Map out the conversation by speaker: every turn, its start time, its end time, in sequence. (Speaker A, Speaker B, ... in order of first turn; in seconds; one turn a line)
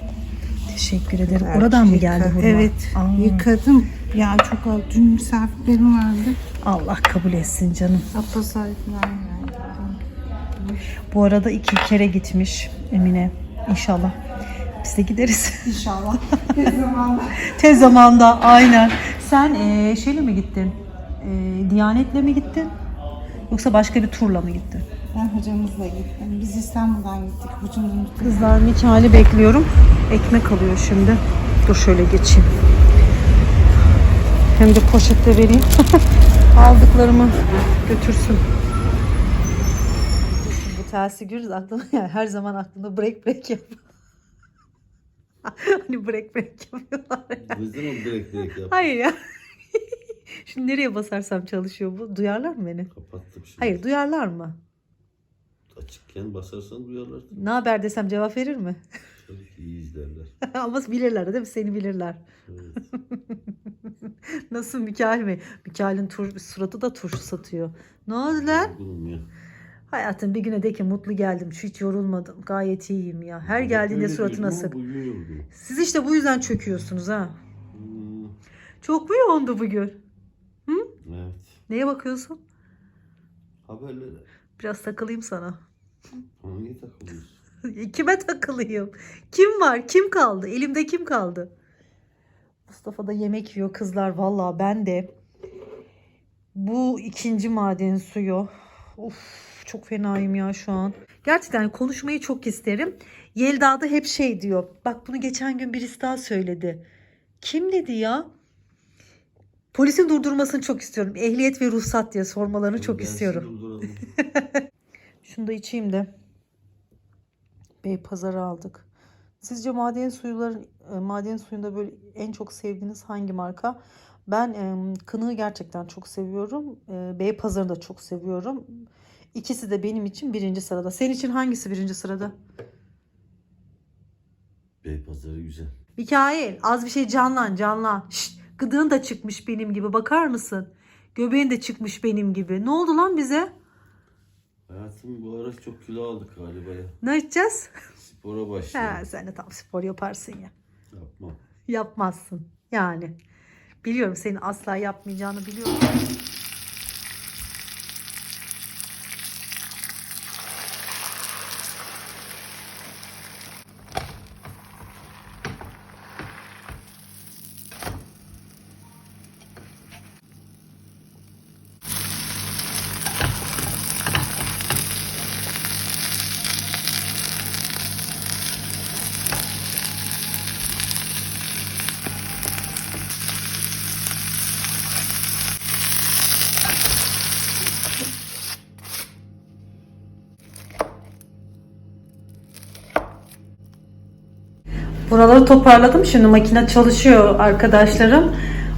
Speaker A: 0.7-3.5
Speaker B: 1.4-6.4
Speaker A: 6.6-8.1
Speaker B: 8.1-10.0
Speaker A: 11.1-14.2
Speaker A: 14.8-15.7
Speaker B: 15.6-17.6
Speaker A: 17.4-22.7
Speaker A: 23.5-24.9
Speaker B: 25.1-28.5
Speaker A: 28.2-32.5
Speaker A: 34.5-35.7
Speaker A: 36.5-38.5
Speaker A: 40.2-43.8
Speaker A: 45.5-47.6
Speaker C: 47.4-48.9
Speaker A: 48.7-49.2
Speaker A: 50.4-52.9
Speaker C: 52.9-53.8
Speaker A: 53.6-54.6
Speaker C: 55.7-57.4
Speaker A: 57.3-58.8
Speaker C: 59.2-60.4
Speaker A: 60.4-62.2
Speaker C: 62.5-62.8
Speaker A: 64.5-68.7
Speaker C: 68.3-69.3
Speaker A: 69.9-74.8
Speaker C: 73.5-75.5
Speaker A: 75.5-77.3
Speaker C: 77.7-78.3
Speaker A: 78.8-80.0
Speaker C: 81.0-81.6
Speaker A: 81.7-82.4
Speaker C: 83.7-84.3
Speaker A: 84.6-85.6
Speaker C: 86.4-87.4
Speaker A: 87.6-91.5
Speaker A: 92.7-95.1
Speaker A: 96.5-106.8
Speaker A: 107.4-108.3
Speaker A: 109.7-113.5
Speaker C: 112.7-114.1
Speaker A: 115.2-116.1
Speaker A: 117.8-118.9
Speaker A: 119.4-128.8
Speaker A: 129.3-132.3
Speaker C: 134.8-135.7
Speaker A: 136.0-143.5
Speaker C: 144.7-147.0
Speaker A: 147.0-147.7
Speaker C: 148.0-149.1
Speaker A: 148.7-150.5
Speaker C: 150.9-151.4
Speaker A: 151.7-153.2
Speaker A: 153.8-156.0
Speaker A: 195.1-198.3